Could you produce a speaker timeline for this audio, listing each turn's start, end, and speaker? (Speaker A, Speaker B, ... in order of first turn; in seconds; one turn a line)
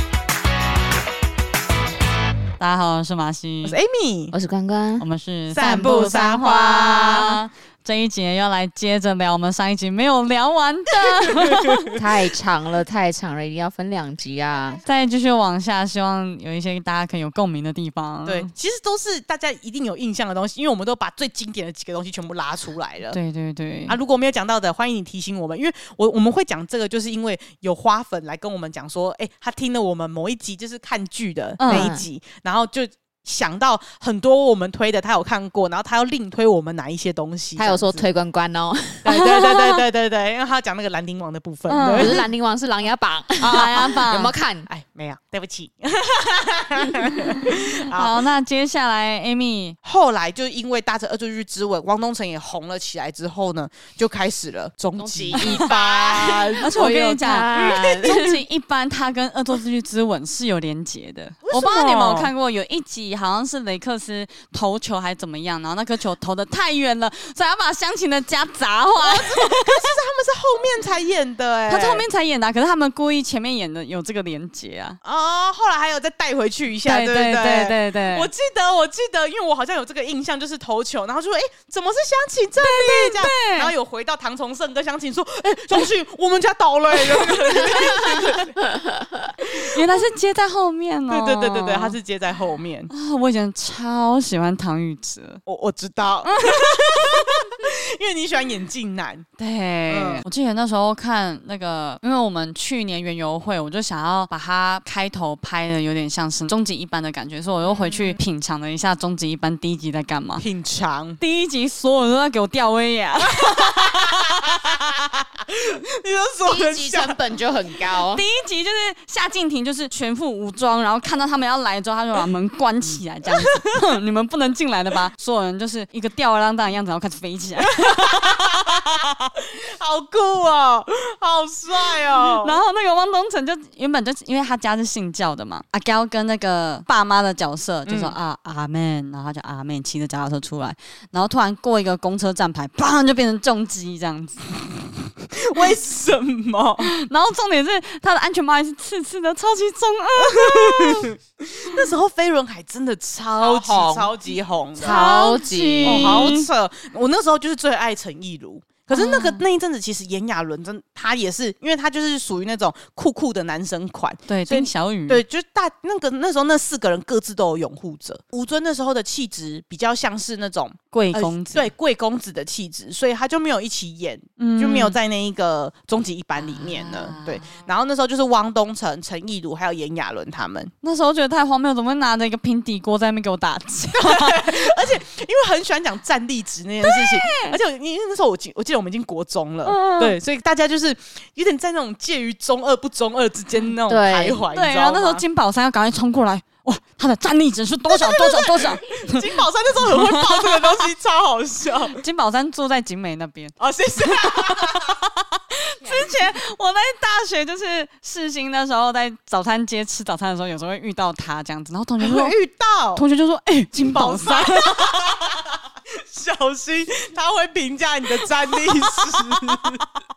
Speaker A: 2.6-3.8
Speaker B: 3.6-4.3
Speaker C: 4.3-5.0
Speaker A: 5.0-12.0
Speaker B: 5.5-7.4
Speaker B: 11.2-11.9
Speaker C: 11.9-14.8
Speaker A: 14.8-18.5
Speaker B: 18.2-23.2
Speaker A: 23.1-23.9
Speaker B: 23.9-38.0
Speaker A: 31.6-31.9
Speaker C: 31.7-32.0
Speaker C: 37.6-39.2
Speaker B: 39.0-42.2
Speaker A: 39.1-39.8
Speaker A: 41.7-42.2
Speaker C: 41.9-44.7
Speaker B: 43.4-43.9
Speaker A: 43.4-44.3
Speaker B: 44.7-48.2
Speaker A: 47.3-49.8
Speaker B: 49.8-58.2
Speaker C: 55.0-58.4
Speaker A: 55.3-55.7
Speaker A: 56.6-69.9
Speaker B: 61.4-62.3
Speaker B: 69.0-72.0
Speaker A: 71.7-75.0
Speaker B: 75.0-88.6
Speaker A: 76.8-78.3
Speaker A: 82.6-83.7
Speaker A: 87.2-87.7
Speaker C: 88.7-89.2
Speaker B: 89.4-89.8
Speaker A: 89.4-92.0
Speaker B: 91.1-92.9
Speaker A: 92.9-95.4
Speaker B: 95.5-99.3
Speaker A: 99.4-110.4
Speaker B: 99.9-100.2
Speaker B: 107.6-108.2
Speaker B: 110.4-111.2
Speaker A: 111.2-114.4
Speaker B: 113.3-117.2
Speaker C: 116.5-118.2
Speaker A: 118.1-128.8
Speaker B: 127.6-132.6
Speaker A: 132.2-144.5
Speaker B: 137.8-138.1
Speaker B: 145.5-146.9
Speaker A: 146.8-151.1
Speaker B: 150.2-155.2
Speaker C: 153.4-154.1
Speaker C: 154.8-156.4
Speaker A: 154.8-156.5
Speaker B: 155.8-180.7
Speaker A: 158.9-159.4
Speaker A: 164.3-165.2
Speaker A: 170.9-171.7
Speaker A: 174.4-175.0
Speaker A: 176.4-177.5
Speaker A: 180.8-184.8
Speaker B: 183.9-195.2
Speaker A: 186.8-187.6
Speaker C: 189.7-190.2
Speaker A: 189.7-190.0
Speaker C: 193.9-194.4
Speaker A: 194.5-200.9
Speaker B: 197.9-202.0
Speaker A: 201.9-212.3
Speaker B: 203.6-205.0
Speaker B: 212.0-213.0
Speaker A: 212.9-215.0
Speaker B: 213.8-219.8
Speaker A: 218.4-218.9